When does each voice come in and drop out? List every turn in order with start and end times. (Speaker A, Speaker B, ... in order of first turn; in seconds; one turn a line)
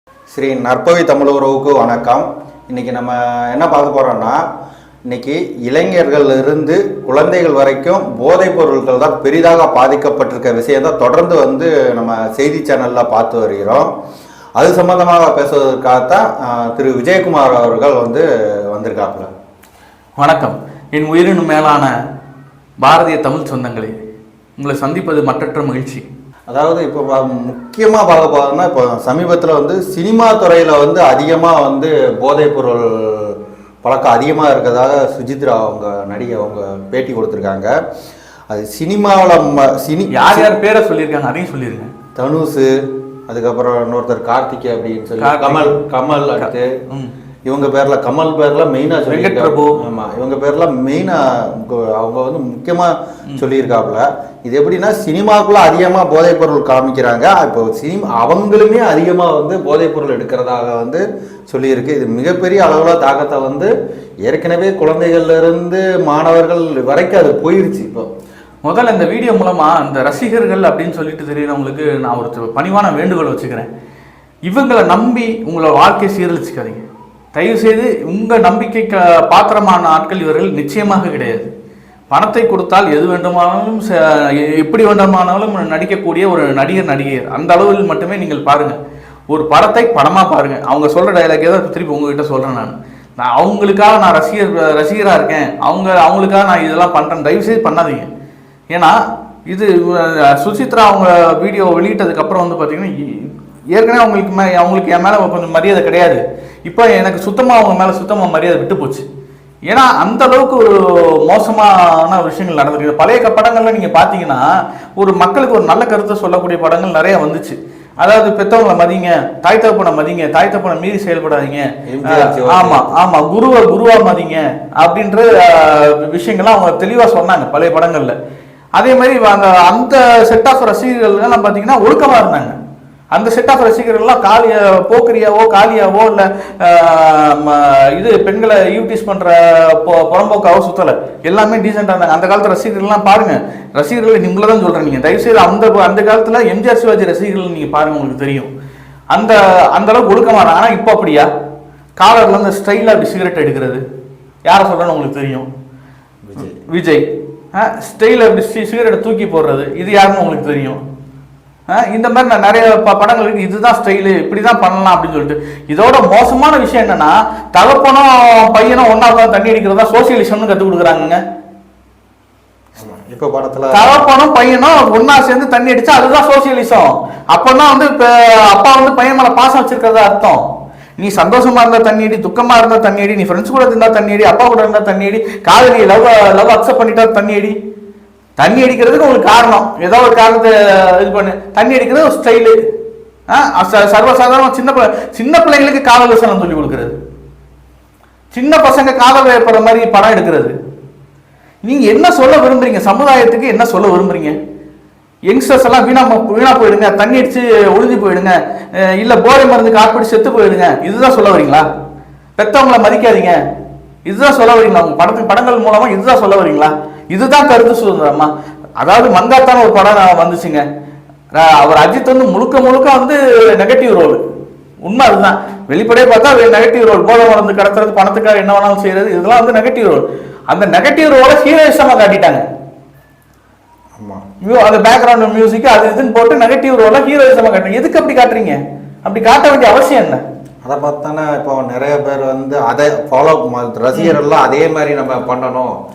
Speaker A: 0.3-4.4
Speaker A: 5.1-13.9
Speaker A: 14.6-19.3
Speaker B: 20.2-21.9
Speaker B: 22.8-23.9
Speaker B: 24.6-26.1
Speaker A: 26.5-37.7
Speaker A: 38.5-40.5
Speaker B: 40.1-41.9
Speaker A: 42.2-42.7
Speaker A: 43.3-46.7
Speaker B: 45.2-45.7
Speaker B: 46.4-47.1
Speaker A: 47.5-63.7
Speaker B: 49.1-49.8
Speaker A: 64.3-68.1
Speaker B: 68.7-73.7
Speaker B: 74.5-76.8
Speaker B: 77.3-81.5
Speaker B: 82.1-88.8
Speaker B: 89.3-98.1
Speaker B: 99.5-109.1
Speaker B: 109.7-110.7
Speaker B: 111.3-114.4
Speaker B: 115.0-128.2
Speaker A: 121.9-122.9
Speaker B: 128.8-132.6
Speaker B: 133.1-148.5
Speaker B: 149.1-151.3
Speaker B: 152.0-153.8
Speaker B: 154.5-155.5
Speaker A: 156.2-156.6
Speaker B: 156.7-160.8
Speaker B: 161.7-171.2
Speaker A: 172.8-174.1
Speaker B: 173.7-180.4
Speaker B: 181.0-187.6
Speaker B: 188.4-192.6
Speaker B: 193.3-196.9
Speaker B: 198.3-200.5
Speaker B: 201.6-204.4
Speaker B: 205.3-208.3
Speaker B: 209.0-211.6
Speaker B: 212.4-213.3
Speaker B: 214.1-220.6
Speaker B: 221.3-224.2
Speaker B: 224.9-232.4
Speaker B: 234.4-240.2
Speaker A: 240.7-245.7